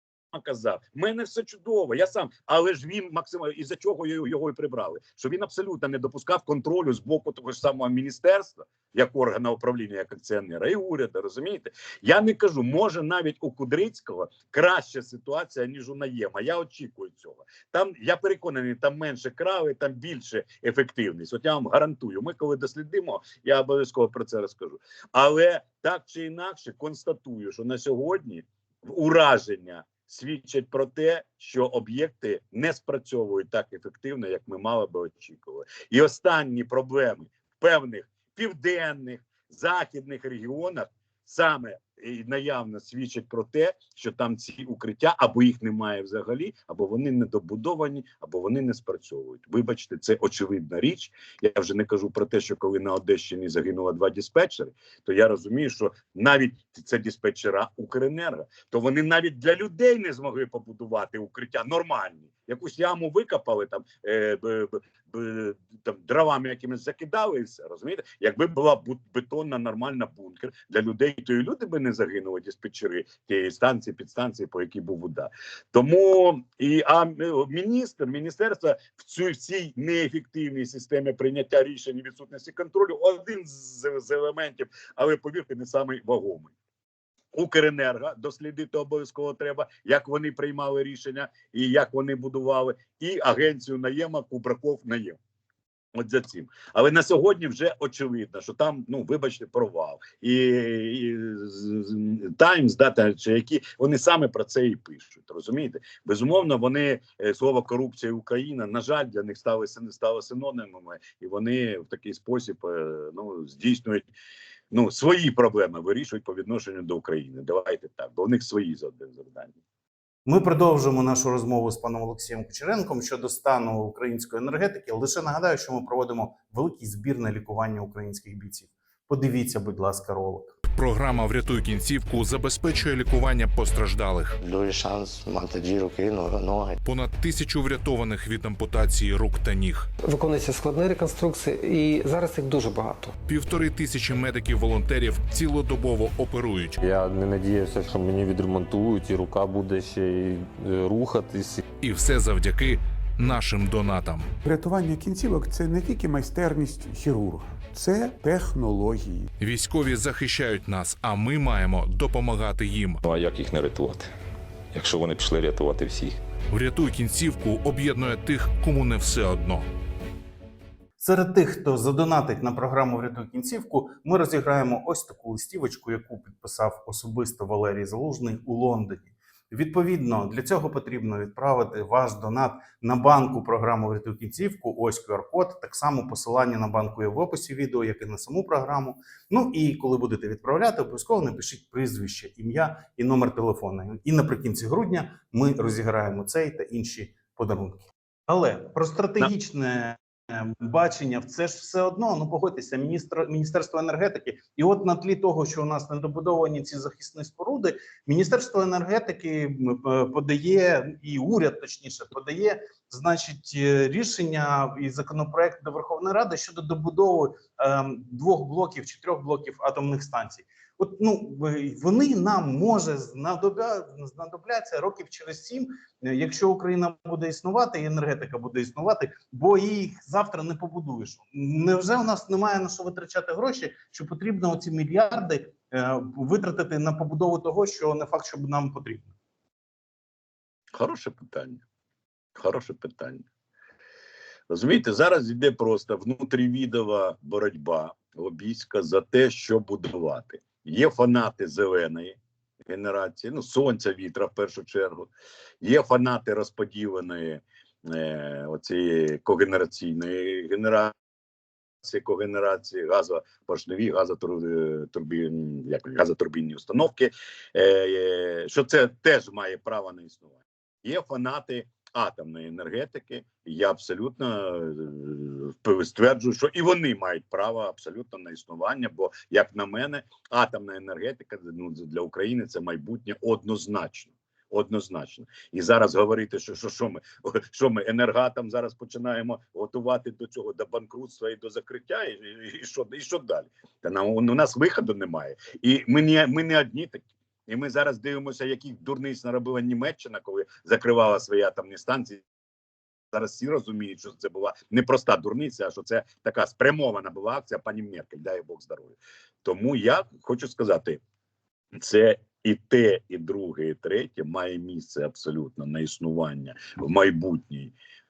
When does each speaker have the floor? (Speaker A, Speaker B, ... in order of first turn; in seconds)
Speaker A: 0.3-86.5, 87.3-95.2, 96.0-114.1, 114.7-119.6, 240.7-241.6, 242.3-243.2, 244.5-255.1, 255.6-260.9, 261.8-302.2, 303.1-311.0, 311.7-317.7
Speaker B: 120.3-130.6, 171.0-239.1
Speaker C: 130.7-134.4, 136.8-139.9, 143.3-146.8, 151.8-154.3, 159.4-163.0, 166.5-169.7
Speaker D: 134.4-136.8
Speaker E: 140.0-143.2
Speaker F: 146.8-151.6
Speaker G: 154.4-159.3
Speaker H: 163.0-164.1, 164.7-166.2